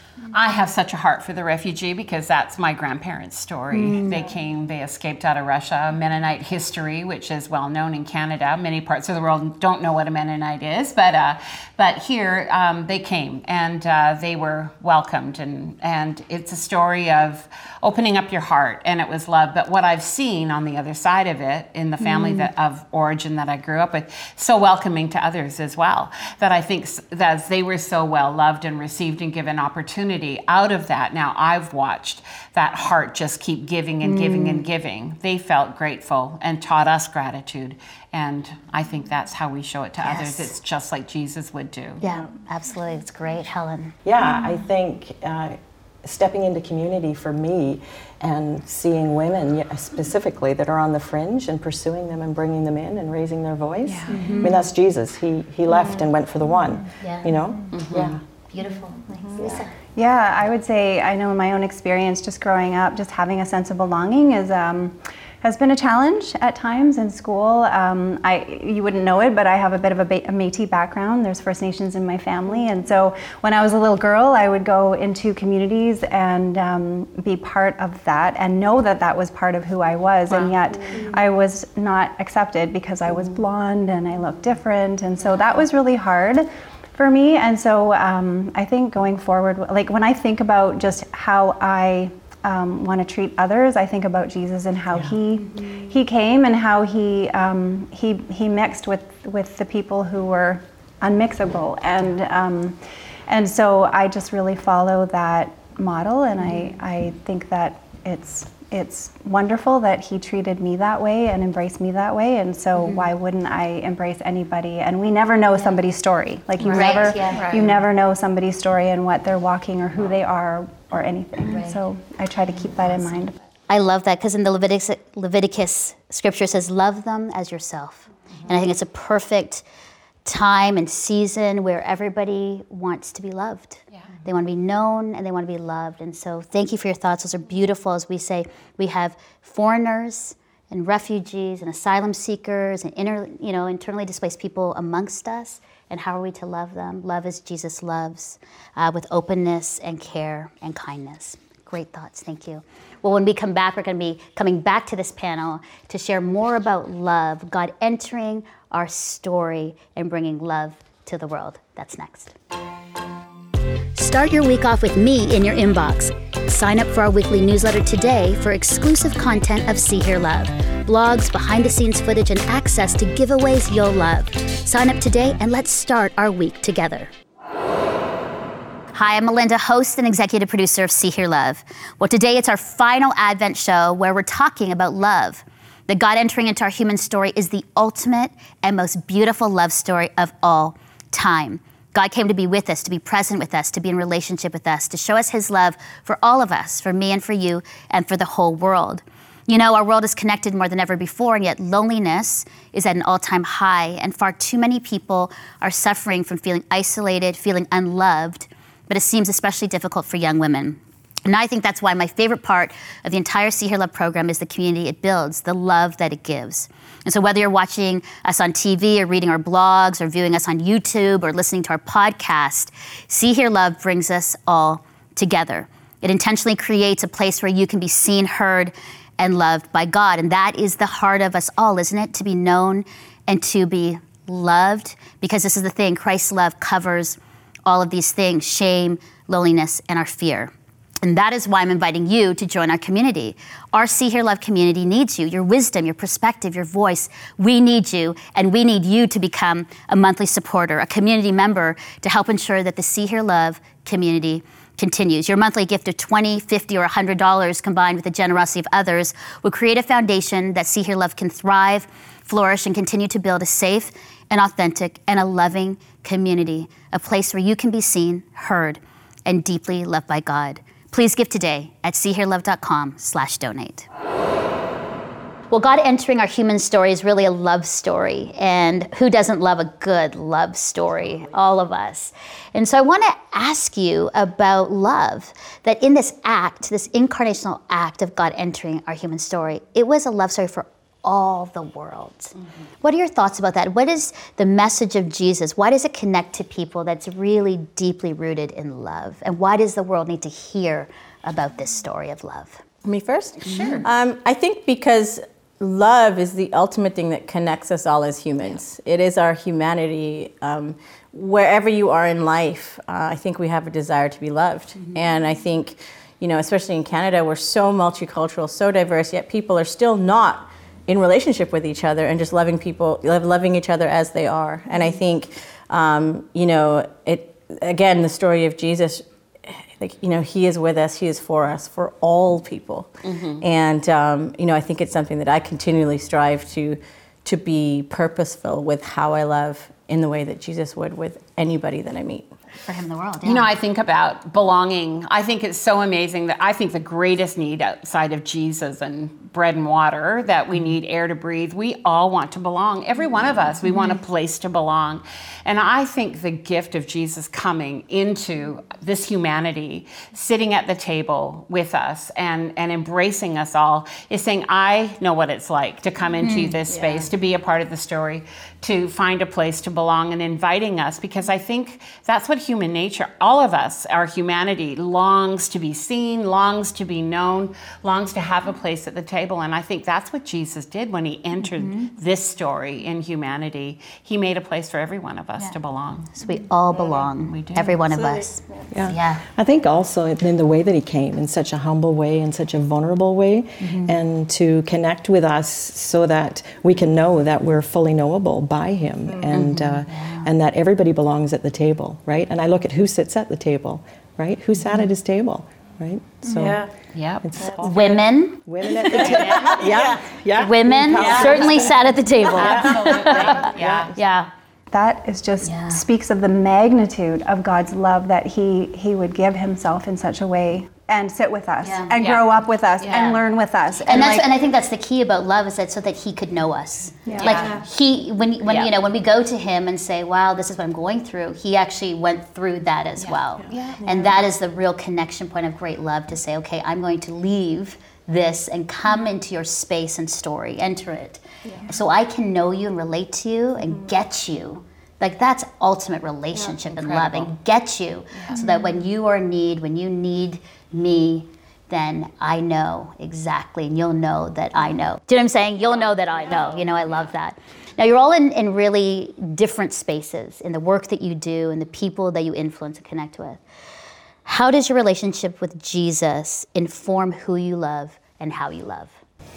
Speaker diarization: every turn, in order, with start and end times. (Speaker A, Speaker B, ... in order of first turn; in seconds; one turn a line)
Speaker A: 0.3-42.0
Speaker B: 3.7-4.2
Speaker B: 22.0-22.5
Speaker B: 34.0-34.6
Speaker B: 40.0-40.5
Speaker B: 42.0-43.9
Speaker C: 44.0-58.2
Speaker D: 53.8-54.3
Speaker B: 54.1-54.6
Speaker B: 57.0-57.3
Speaker A: 57.7-58.1
Speaker B: 57.9-59.7
Speaker E: 59.1-59.4
Speaker D: 59.9-123.3
Speaker A: 80.3-80.5
Speaker B: 116.6-117.5
Speaker A: 117.3-117.8
Speaker B: 121.5-121.8
Speaker B: 123.7-129.6
Speaker B: 130.2-162.3
Speaker B: 163.9-177.1
Speaker B: 178.9-273.9
Speaker B: 275.5-302.6
Speaker E: 302.8-342.3
Speaker A: 303.4-303.8
Speaker B: 303.4-303.8
Speaker A: 333.0-333.4
Speaker B: 342.6-343.5
Speaker A: 343.2-386.1
Speaker B: 366.2-366.6
Speaker E: 366.7-367.1
Speaker B: 381.5-381.9
Speaker B: 386.1-389.2
Speaker E: 386.7-388.6
Speaker A: 387.3-387.8
Speaker C: 388.7-406.7
Speaker B: 393.6-393.9
Speaker A: 399.3-399.8
Speaker B: 399.9-400.3
Speaker E: 406.3-406.7
Speaker A: 406.9-407.2
Speaker C: 407.2-414.0
Speaker E: 407.4-407.7
Speaker B: 407.6-408.4
Speaker A: 408.9-409.6
Speaker E: 409.1-410.1
Speaker B: 410.4-414.3
Speaker E: 411.0-411.5
Speaker A: 412.3-413.9
Speaker D: 414.7-424.3
Speaker B: 415.4-415.8
Speaker B: 421.6-421.9
Speaker A: 422.0-423.1
Speaker B: 422.8-423.2
Speaker B: 423.8-463.4
Speaker A: 427.1-427.5
Speaker E: 427.1-427.6
Speaker D: 427.1-427.4
Speaker A: 428.5-428.7
Speaker A: 433.0-433.9
Speaker A: 446.6-447.3
Speaker A: 448.1-448.4
Speaker B: 464.2-469.0